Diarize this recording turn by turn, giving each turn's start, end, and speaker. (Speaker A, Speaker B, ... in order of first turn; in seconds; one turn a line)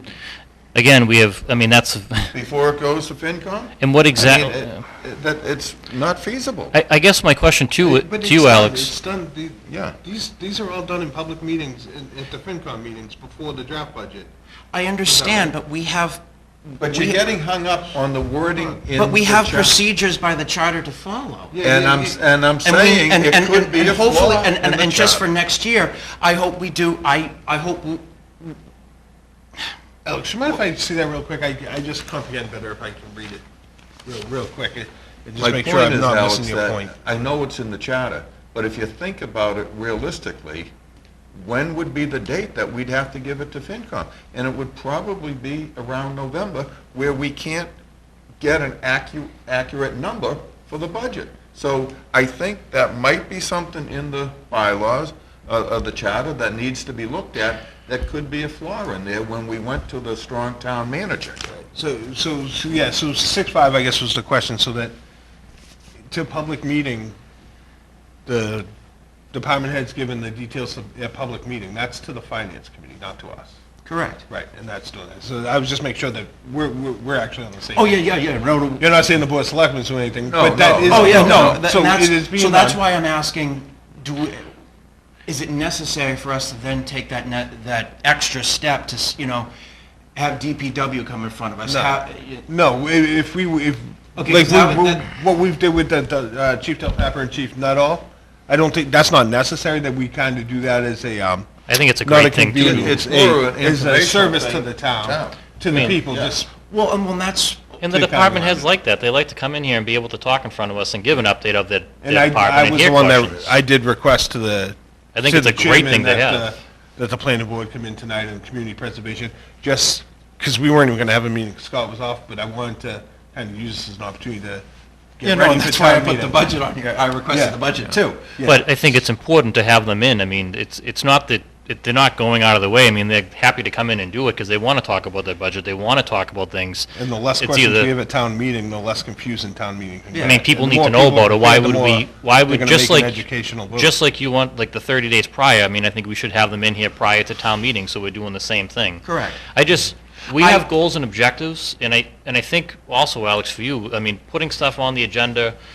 Speaker A: 0.8-2.3
Speaker B: 2.3-6.8
Speaker A: 3.8-4.8
Speaker A: 6.7-8.9
Speaker C: 7.8-14.3
Speaker B: 9.7-10.0
Speaker D: 14.7-16.2
Speaker C: 15.1-15.5
Speaker D: 16.8-17.2
Speaker B: 16.8-19.8
Speaker D: 19.0-21.6
Speaker C: 21.5-22.2
Speaker B: 21.6-25.3
Speaker D: 22.6-28.6
Speaker C: 30.1-33.4
Speaker C: 34.0-37.0
Speaker B: 35.4-40.7
Speaker B: 41.4-47.7
Speaker B: 48.4-61.6
Speaker C: 61.7-65.0
Speaker C: 66.1-67.2
Speaker C: 68.3-68.7
Speaker C: 69.3-73.5
Speaker D: 73.8-74.2
Speaker C: 74.3-78.0
Speaker D: 77.8-78.9
Speaker C: 78.8-82.8
Speaker B: 80.3-81.6
Speaker D: 80.9-84.5
Speaker D: 85.3-89.5
Speaker D: 90.2-92.5
Speaker C: 91.7-101.5
Speaker D: 94.2-95.1
Speaker A: 101.7-103.0
Speaker C: 102.0-106.5
Speaker B: 102.6-106.0
Speaker D: 105.9-107.8
Speaker A: 107.8-113.5
Speaker C: 107.9-108.6
Speaker C: 112.0-124.7
Speaker A: 115.2-116.5
Speaker C: 125.2-126.5
Speaker D: 125.2-128.4
Speaker C: 127.3-127.8
Speaker C: 128.4-128.7
Speaker A: 128.4-137.9
Speaker C: 137.0-144.0
Speaker D: 140.1-140.5
Speaker A: 140.2-155.6
Speaker D: 149.0-149.4
Speaker D: 150.3-150.7